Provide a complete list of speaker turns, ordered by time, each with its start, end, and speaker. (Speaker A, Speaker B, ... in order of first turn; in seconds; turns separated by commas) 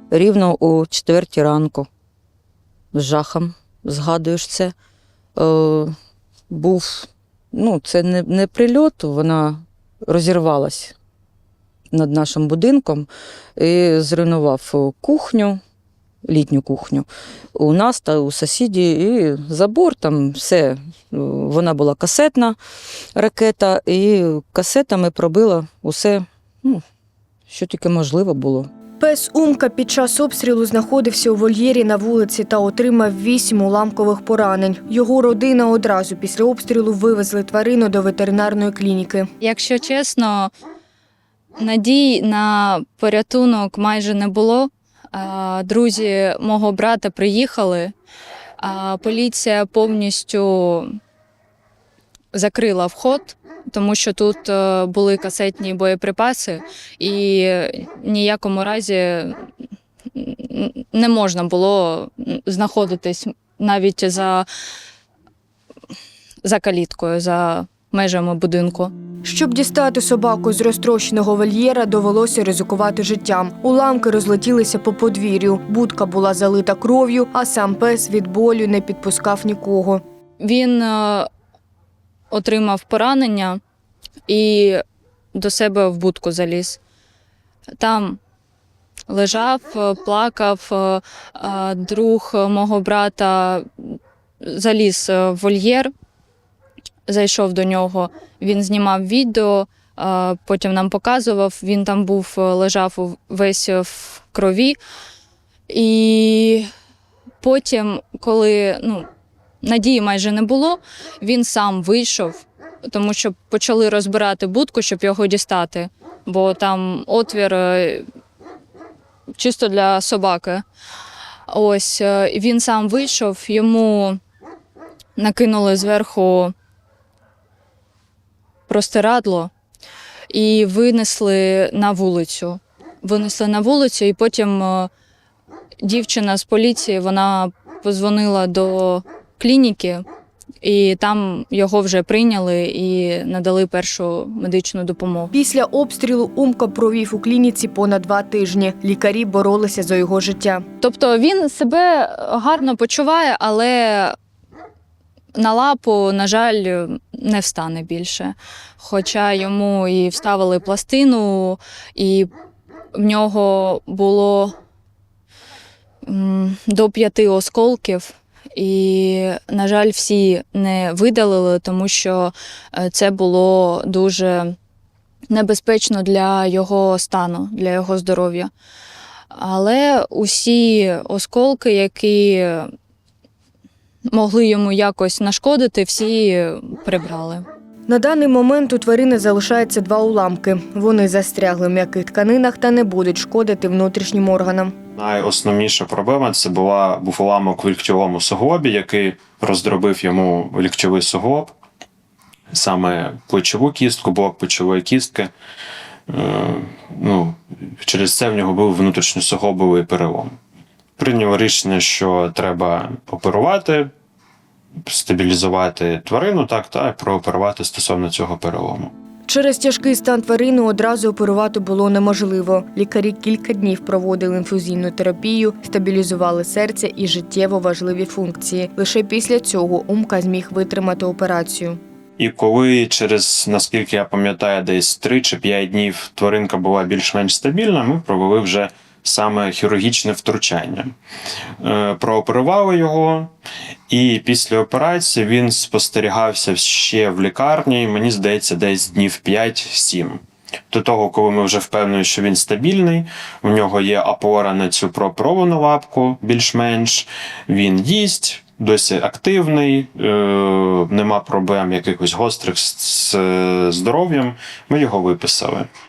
Speaker A: 0.1-1.9, Speaker A: 2.9-4.7, Speaker A: 5.4-5.9, Speaker A: 6.5-10.9, Speaker A: 11.9-15.6, Speaker A: 16.2-22.6, Speaker A: 23.1-26.8, Speaker A: 27.5-28.7, Speaker B: 29.0-39.3, Speaker C: 39.4-40.5, Speaker C: 41.6-47.9, Speaker C: 48.6-51.0, Speaker C: 52.3-59.4, Speaker C: 60.1-64.5, Speaker C: 66.4-68.9, Speaker B: 69.2-80.0, Speaker C: 80.4-81.3, Speaker C: 82.3-83.6, Speaker C: 84.3-84.8, Speaker C: 85.3-86.8, Speaker C: 87.8-88.2, Speaker C: 89.1-95.9, Speaker C: 97.1-104.8, Speaker C: 105.7-106.7, Speaker C: 107.4-109.1, Speaker C: 109.6-118.0, Speaker C: 119.3-120.6, Speaker C: 121.5-124.2, Speaker C: 125.2-126.5, Speaker C: 128.7-129.5, Speaker C: 130.3-134.9, Speaker C: 135.8-140.0, Speaker C: 140.6-145.3, Speaker B: 145.3-150.6, Speaker C: 150.8-154.2, Speaker C: 155.3-162.3, Speaker C: 162.9-164.5, Speaker C: 166.0-174.6, Speaker C: 175.3-178.5, Speaker C: 179.3-182.7, Speaker C: 184.1-187.4, Speaker B: 187.9-194.7, Speaker D: 195.0-201.5, Speaker D: 202.5-205.3, Speaker D: 206.1-210.4, Speaker D: 211.0-213.9, Speaker D: 214.9-218.9, Speaker B: 219.3-231.8, Speaker D: 232.2-240.9, Speaker D: 241.6-243.3, Speaker D: 243.9-265.7